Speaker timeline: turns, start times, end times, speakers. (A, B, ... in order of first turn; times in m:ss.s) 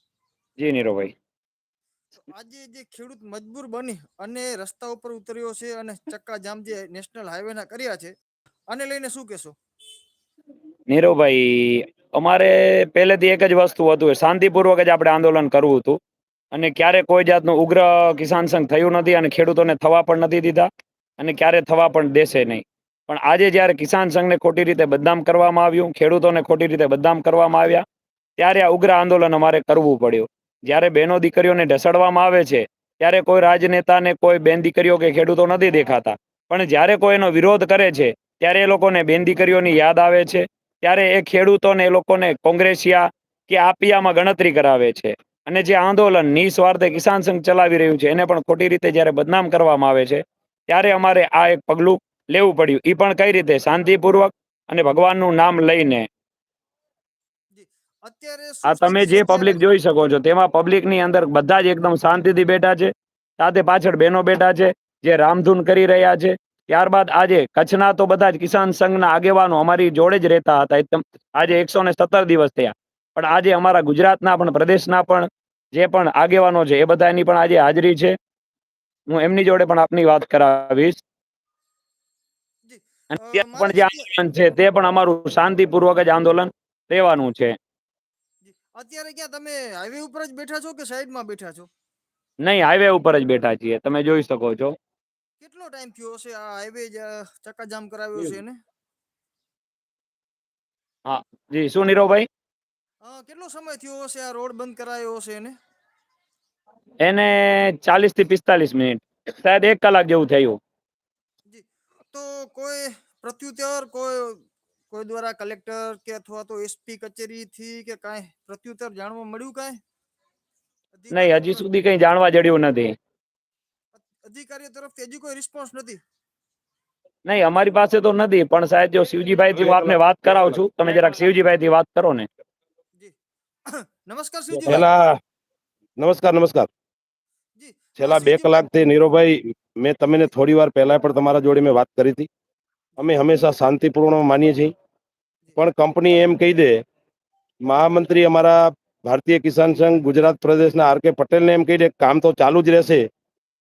0:00.6-0:01.1 A
0:02.3-0:08.1 B
0:08.7-0:09.6 B
0:10.9-0:16.0 A
0:16.5-0:27.8 A
0:28.4-0:56.1 A
0:57.5-0:59.6 B
0:58.6-1:18.2 A
1:19.1-1:21.0 A
1:22.7-1:24.1 B
1:23.1-1:27.6 A
1:28.4-1:31.7 B
1:32.4-1:34.8 A
1:35.4-1:38.6 B
1:41.0-1:42.3 A
1:43.0-1:45.5 B
1:47.0-1:50.6 A
1:51.5-1:59.8 B
2:00.9-2:01.6 B
2:01.1-2:02.9 A
2:04.0-2:06.0 B
2:07.2-2:12.3 A
2:09.5-2:10.6 C
2:13.7-2:14.9 B
2:14.7-2:15.2 C
2:16.0-2:16.7 C
2:17.6-2:18.6 B
2:18.0-2:22.3 C
2:23.0-2:24.7 C
2:25.6-2:26.8 C
2:27.6-2:33.0 C